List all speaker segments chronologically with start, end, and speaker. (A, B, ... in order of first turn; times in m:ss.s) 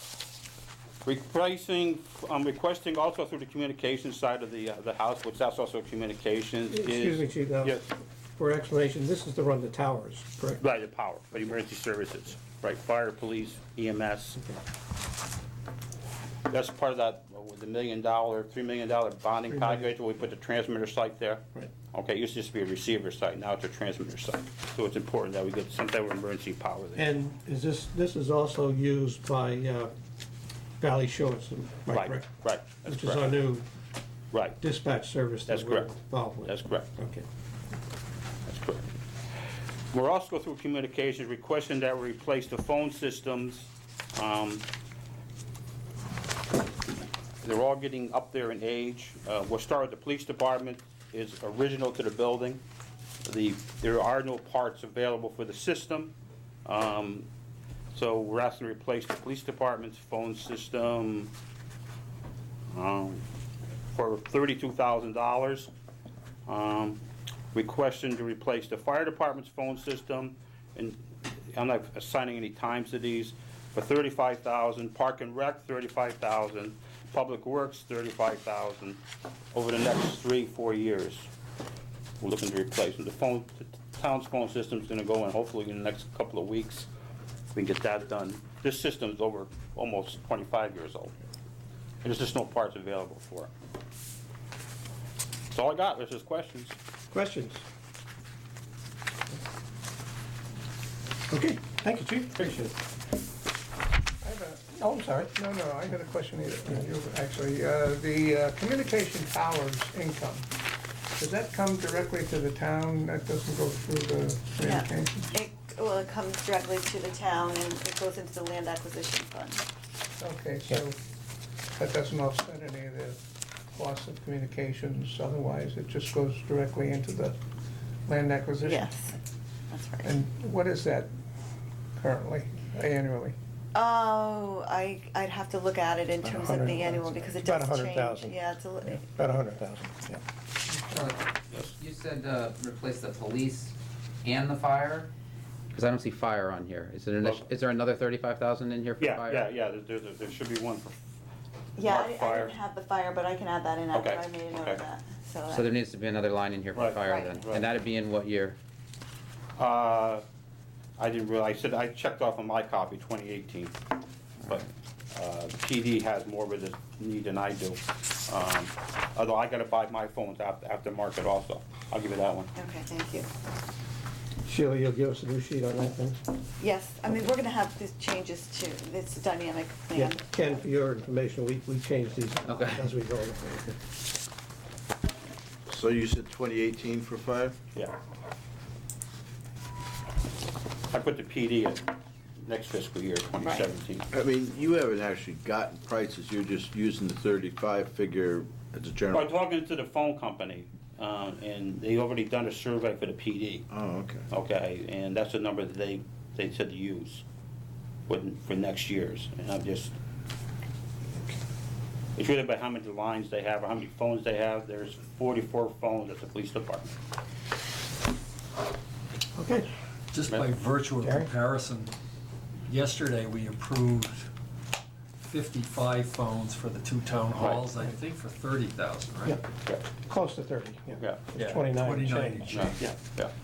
0:01.0-0:07.9 A
0:06.7-0:10.6 B
0:10.6-0:14.4 A
0:16.5-0:27.1 A
0:19.5-0:19.9 B
0:27.0-0:29.9 B
0:30.8-0:32.3 B
0:31.9-0:33.4 A
0:32.8-0:33.6 B
0:34.3-0:34.6 A
0:34.6-0:37.2 B
0:35.5-0:35.9 A
0:36.4-0:36.9 A
0:38.5-0:38.9 A
0:39.9-0:44.6 A
0:47.4-0:52.6 A
0:53.2-0:56.1 A
0:56.7-0:57.3 A
0:57.9-1:01.3 A
1:02.7-1:03.2 A
1:03.9-1:05.7 A
1:06.5-1:07.0 A
1:07.5-1:11.0 A
1:11.5-1:19.0 A
1:19.5-1:21.3 A
1:22.2-1:26.9 A
1:27.5-1:31.1 A
1:32.0-1:33.5 A
1:35.5-1:36.8 A
1:37.1-1:37.6 B
1:41.3-1:42.7 B
1:44.2-1:50.5 C
1:51.2-1:55.3 C
1:54.6-1:59.6 D
2:00.2-2:01.0 C
2:01.8-2:03.2 C
2:03.7-2:07.4 C
2:08.1-2:08.9 C
2:08.6-2:09.2 D
2:09.7-2:10.2 D
2:10.0-2:11.1 C
2:12.0-2:13.4 C
2:13.7-2:19.1 D
2:16.3-2:18.4 B
2:19.2-2:20.2 B
2:21.8-2:23.7 E
2:24.2-2:25.1 E
2:25.7-2:29.5 E
2:29.0-2:31.0 A
2:31.8-2:35.7 D
2:31.8-2:32.6 A
2:33.9-2:34.8 A
2:35.6-2:38.6 E
2:36.7-2:37.7 A
2:37.0-2:37.4 D
2:39.6-2:40.2 A
2:41.0-2:43.8 A
2:44.4-2:52.5 A
2:52.6-2:53.3 D
2:54.4-2:56.2 B
2:56.6-3:00.5 D
2:59.9-3:03.8 B
3:02.5-3:02.8 E
3:05.7-3:07.6 F
3:10.9-3:11.8 A
3:12.4-3:14.1 A
3:14.1-3:19.2 F
3:19.1-3:23.6 A
3:23.7-3:24.2 F
3:24.3-3:27.2 A
3:28.1-3:30.0 A
3:32.2-3:37.0 A
3:39.4-3:39.7 B
3:40.1-3:42.0 G
3:41.0-3:41.3 B
3:42.7-3:44.3 G
3:45.2-3:49.4 G
3:47.4-3:47.6 A
3:50.0-3:52.7 B
3:51.4-3:53.0 G
3:52.4-3:53.3 A